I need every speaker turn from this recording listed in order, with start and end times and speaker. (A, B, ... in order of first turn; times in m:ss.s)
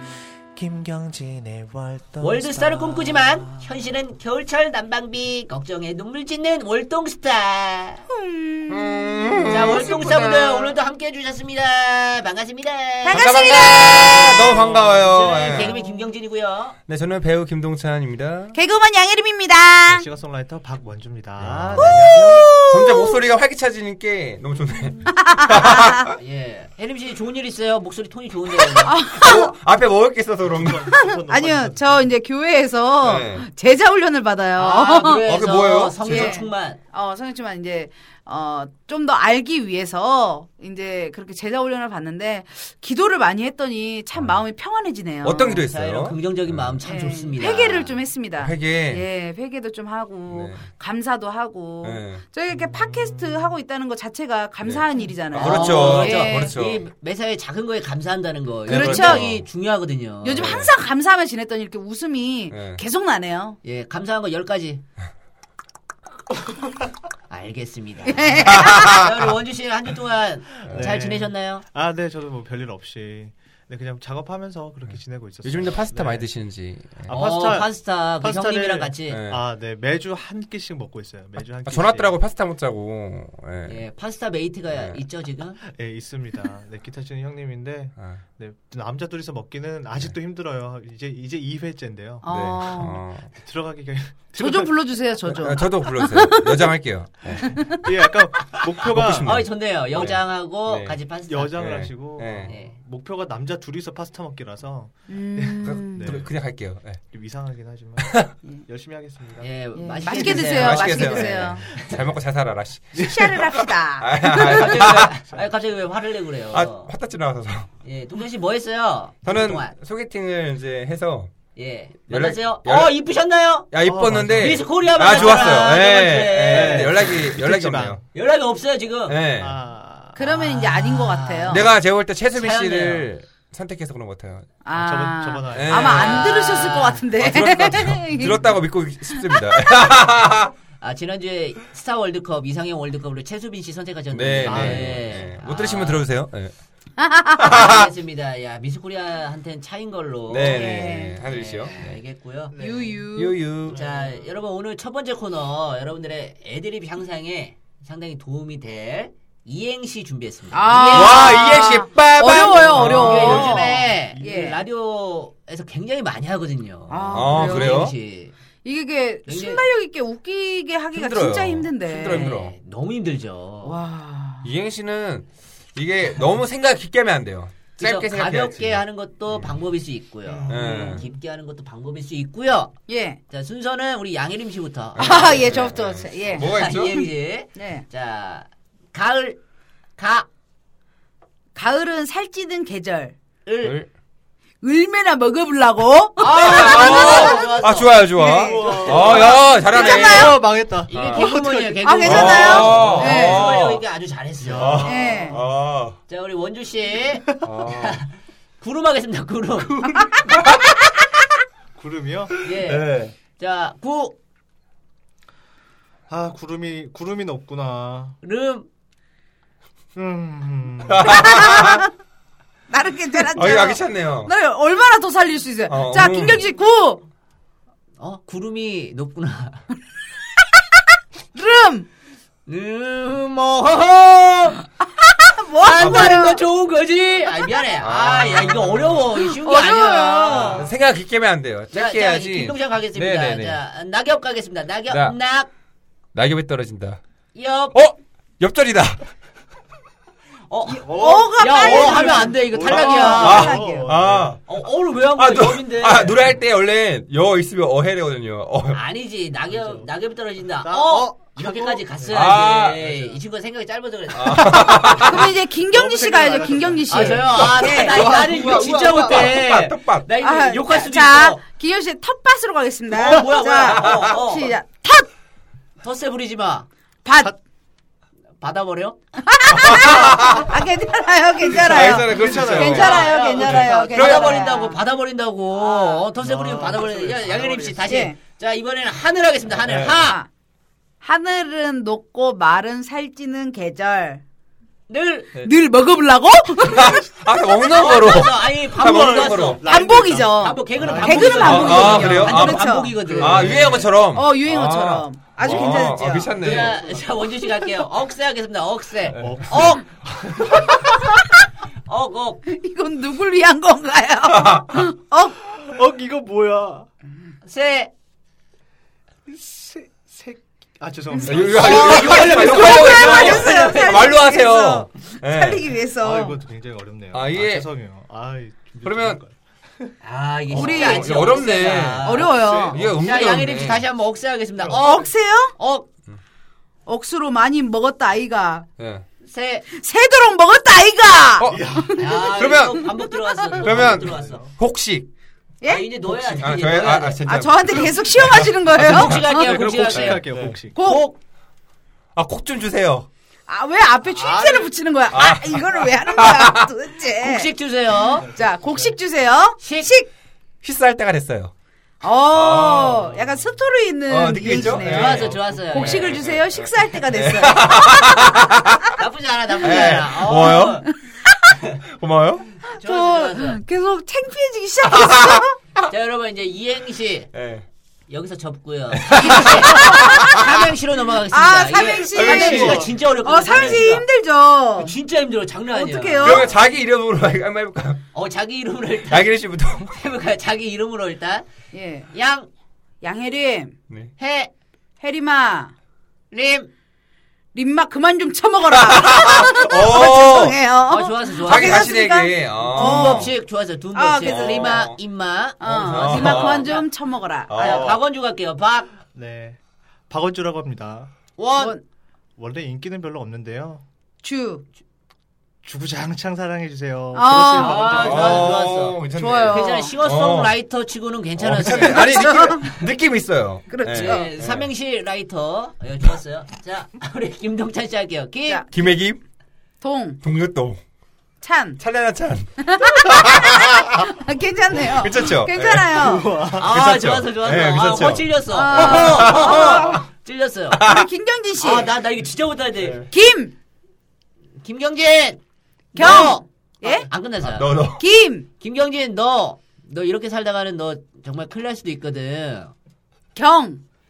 0:00.5-0:03.8 A
0:02.2-0:08.0 B
0:08.1-0:10.3 C
0:08.7-0:10.6 D
0:09.5-0:16.8 B
0:13.0-0:14.4 C
0:13.1-0:15.8 D
0:16.9-0:18.6 D
0:18.5-0:20.1 C
0:19.9-0:22.5 E
0:21.4-0:22.1 D
0:21.8-0:23.2 C
0:22.7-0:26.2 D
0:25.1-0:26.1 C
0:26.2-0:29.2 B
0:28.8-0:29.6 C
0:29.1-0:30.8 D
0:30.4-0:32.1 E
0:30.9-0:35.3 C
0:33.0-0:33.5 D
0:34.6-0:36.8 B
0:35.2-0:36.4 D
0:36.0-0:45.7 C
0:45.2-0:46.8 D
0:45.7-0:48.0 B
0:46.8-0:56.6 C
0:48.4-0:49.1 D
0:50.3-0:50.7 D
0:51.8-0:52.2 D
0:52.5-0:53.5 E
0:54.6-0:56.8 D
0:55.4-1:00.6 B
0:58.7-0:59.3 C
0:58.7-0:59.4 D
1:00.2-1:03.6 C
1:00.4-1:00.7 D
1:02.5-1:02.8 D
1:03.6-1:04.8 B
1:07.3-1:11.6 B
1:08.1-1:09.0 C
1:08.5-1:09.3 D
1:10.7-1:10.9 D
1:10.7-1:16.3 E
1:15.4-1:17.2 D
1:17.1-1:22.1 E
1:17.1-1:19.2 B
1:19.1-1:19.4 D
1:21.7-1:23.8 D
1:23.7-1:25.6 B
1:24.7-1:25.0 D
1:25.7-1:32.3 E
1:32.2-1:33.0 C
1:32.3-1:33.3 D
1:33.4-1:34.8 E
1:34.4-1:36.6 C
1:35.3-1:37.7 D
1:37.3-1:39.3 E
1:37.5-1:37.9 C
1:38.8-1:41.0 D
1:39.2-1:41.7 B
1:41.3-1:46.3 E
1:41.5-1:42.5 D
1:42.5-1:42.8 B
1:45.1-1:46.1 C
1:45.6-1:47.0 D
1:47.1-1:49.5 E
1:49.4-1:51.8 B
1:49.8-1:51.7 C
1:50.3-1:55.2 D
1:51.3-1:52.0 E
1:53.0-1:53.3 E
1:53.0-1:54.9 C
1:54.5-1:56.9 B
1:56.5-1:57.7 D
1:57.8-1:59.7 B
1:59.2-2:01.3 D
2:01.6-2:03.7 B
2:02.1-2:03.0 D
2:03.7-2:08.0 D
2:03.8-2:05.4 E
2:04.3-2:07.1 B
2:06.5-2:08.0 E
2:08.1-2:09.2 B
2:09.1-2:09.6 D
2:09.4-2:10.6 E
2:10.2-2:11.7 C
2:10.3-2:11.7 B
2:11.4-2:14.5 D
2:12.3-2:13.1 B
2:14.6-2:18.5 C
2:14.7-2:16.2 E
2:15.5-2:20.5 D
2:15.8-2:17.1 B
2:19.1-2:19.7 C
2:20.8-2:26.1 B
2:24.1-2:26.5 D
2:24.4-2:25.0 E
2:27.0-2:27.8 C
2:27.4-2:27.9 D
2:27.4-2:30.6 B
2:30.3-2:32.0 D
2:30.4-2:31.2 C
2:31.2-2:32.5 B
2:32.5-2:33.1 E
2:32.6-2:33.4 C
2:33.2-2:33.8 D
2:33.6-2:34.3 E
2:33.7-2:41.4 B
2:40.5-2:44.6 C
2:40.9-2:43.6 D
2:42.6-2:48.3 B
2:42.7-2:44.5 E
2:46.9-2:47.9 C
2:47.1-2:47.9 D
2:48.6-2:52.4 C
2:49.3-2:49.6 B
2:50.9-2:52.5 D
2:52.0-2:53.8 B
2:53.6-2:54.5 C
2:54.4-2:58.8 D
2:57.8-3:05.7 B
3:00.3-3:01.1 E
3:00.5-3:01.0 D
3:02.9-3:03.2 C
3:05.0-3:07.0 C
3:05.0-3:07.0 D
3:06.4-3:09.4 B
3:07.6-3:07.8 C
3:10.0-3:10.3 B
3:11.6-3:13.2 C
3:13.5-3:13.8 B
3:13.6-3:13.9 D
3:14.6-3:19.0 C
3:16.2-3:19.4 B
3:16.4-3:20.4 D
3:18.4-3:23.0 E
3:19.6-3:20.4 C
3:20.9-3:24.8 B
3:20.9-3:21.2 D
3:21.2-3:23.4 C
3:22.0-3:23.8 D
3:24.4-3:25.4 E
3:24.5-3:26.0 D
3:24.8-3:25.4 C
3:26.1-3:30.1 B
3:27.4-3:28.0 D
3:31.8-3:32.4 E
3:32.4-3:34.2 B
3:32.5-3:33.1 D
3:36.1-3:38.2 E
3:38.2-3:38.7 B
3:40.0-3:41.4 E
3:40.9-3:41.9 D
3:41.2-3:41.9 C
3:42.7-3:47.0 C
3:43.3-3:44.3 D
3:45.7-3:46.4 D
3:48.0-3:49.6 B
3:51.3-3:51.9 C
3:52.5-3:54.7 B
3:55.0-3:56.4 C
3:55.6-4:00.7 B
3:55.8-3:56.2 D
3:57.8-3:59.0 D
3:59.2-4:00.7 C
4:00.4-4:03.6 D
4:01.7-4:05.5 B
4:04.9-4:05.2 D
4:06.1-4:07.0 D
4:07.3-4:07.8 B
4:07.7-4:09.0 D
4:10.5-4:13.5 B
4:10.7-4:13.9 C
4:10.8-4:14.4 E
4:13.2-4:14.5 D
4:14.5-4:16.2 B
4:15.2-4:18.8 D
4:18.7-4:25.0 B
4:19.5-4:19.9 E
4:20.6-4:23.2 E
4:22.1-4:22.8 D
4:24.1-4:25.3 D
4:24.8-4:29.4 E
4:24.9-4:28.2 C
4:26.9-4:31.4 B
4:27.4-4:30.1 D
4:30.2-4:35.1 C
4:32.9-4:34.5 B
4:33.8-4:34.1 D
4:35.8-4:36.7 B
4:37.0-4:37.3 C
4:38.4-4:39.0 B
4:39.2-4:44.8 C
4:39.5-4:40.5 D
4:41.5-4:44.3 D
4:41.7-4:43.8 E
4:42.2-4:50.2 B
4:45.5-4:46.0 C
4:46.2-4:48.0 E
4:47.9-4:48.2 C
4:49.6-4:50.1 D
4:50.0-4:50.3 C
4:51.0-4:54.2 C
4:54.9-4:55.4 B
4:55.4-4:57.1 C
4:56.6-4:59.6 D
4:57.6-4:58.0 C
4:57.7-5:03.9 B
4:58.8-5:03.8 E
4:59.6-5:03.3 C
5:01.4-5:06.8 D
5:04.1-5:06.4 C
5:06.4-5:09.8 B
5:06.5-5:07.3 E
5:09.1-5:09.5 D
5:09.2-5:11.0 E
5:11.9-5:12.4 B
5:12.5-5:15.4 C
5:14.3-5:14.9 D
5:15.5-5:16.9 E
5:17.4-5:17.9 B
5:19.3-5:23.3 E
5:21.1-5:26.4 C
5:21.2-5:25.6 D
5:21.5-5:24.1 B
5:26.0-5:29.9 E
5:27.1-5:27.7 D
5:28.8-5:29.2 D
5:30.0-5:35.9 B
5:30.5-5:32.8 C
5:30.5-5:33.8 D
5:30.6-5:31.1 E
5:31.8-5:32.9 E
5:34.7-5:35.5 C
5:36.9-5:38.7 C
5:38.8-5:39.0 D
5:39.2-5:39.7 B
5:39.7-5:42.2 C
5:41.4-5:42.9 D
5:41.5-5:42.1 E
5:42.0-5:44.4 B
5:43.5-5:44.5 E
5:43.6-5:45.1 D
5:45.6-5:45.9 C
5:45.7-5:47.2 B
5:46.1-5:50.6 D
5:47.2-5:49.6 C
5:48.7-5:50.3 B
5:49.4-5:50.8 E
5:50.8-5:51.2 C
5:52.2-5:53.1 D
5:53.5-5:57.5 C
5:54.1-5:54.7 E
5:55.1-5:56.7 D
5:57.2-5:58.3 B
5:58.1-5:59.0 E
5:58.2-6:00.1 C
5:59.6-5:59.9 B
6:00.6-6:01.5 D
6:02.0-6:08.9 C
6:02.3-6:03.1 D
6:04.1-6:08.9 D
6:04.6-6:05.9 E
6:04.8-6:06.1 B
6:09.0-6:10.9 B
6:09.6-6:10.8 D
6:10.4-6:10.9 C
6:11.8-6:12.5 D
6:12.7-6:15.6 C
6:12.7-6:13.6 B
6:14.8-6:15.9 D
6:15.9-6:17.3 B
6:17.3-6:17.7 D
6:18.1-6:24.1 B
6:19.0-6:20.5 D
6:19.1-6:20.5 C
6:21.3-6:25.0 C
6:22.1-6:22.9 D
6:22.3-6:22.9 E
6:23.5-6:23.8 D
6:24.8-6:26.5 B
6:25.7-6:26.5 C
6:26.2-6:28.0 D
6:28.1-6:29.3 B
6:29.1-6:30.0 D
6:29.9-6:31.5 B
6:31.7-6:32.1 C
6:32.1-6:32.5 B
6:33.0-6:33.8 C
6:34.2-6:34.5 B
6:35.0-6:35.7 C
6:36.3-6:36.7 B
6:37.5-6:43.4 C
6:38.7-6:40.6 D
6:40.9-6:41.9 B
6:41.4-6:43.3 D
6:42.7-6:46.9 B
6:43.9-6:44.9 C
6:44.2-6:45.0 D
6:45.6-6:47.9 C
6:45.6-6:46.7 D
6:47.5-6:48.0 D
6:47.5-6:48.9 B
6:49.1-6:51.1 E
6:51.4-6:51.8 B
6:51.6-6:51.8 C
6:52.4-6:53.8 E
6:54.2-6:54.6 C
6:55.6-6:58.6 E
6:57.1-6:58.2 C
6:57.6-7:02.3 B
6:58.0-7:00.6 D
6:59.1-7:00.0 C
7:01.4-7:04.7 D
7:01.8-7:02.8 C
7:03.7-7:04.3 C
7:03.9-7:08.6 B
7:08.7-7:09.2 D
7:09.8-7:10.2 C
7:10.2-7:10.8 D
7:11.4-7:11.8 C
7:11.8-7:14.1 D
7:12.6-7:16.3 C
7:14.8-7:20.0 D
7:15.9-7:16.7 E
7:16.5-7:20.9 B
7:18.5-7:20.0 C
7:20.7-7:21.1 D
7:20.8-7:21.9 C
7:21.6-7:23.1 B
7:23.1-7:23.5 C
7:24.6-7:25.4 B
7:25.9-7:27.8 B
7:26.0-7:27.1 C
7:27.4-7:28.0 D
7:28.0-7:28.5 C
7:28.6-7:32.7 B
7:33.4-7:33.8 C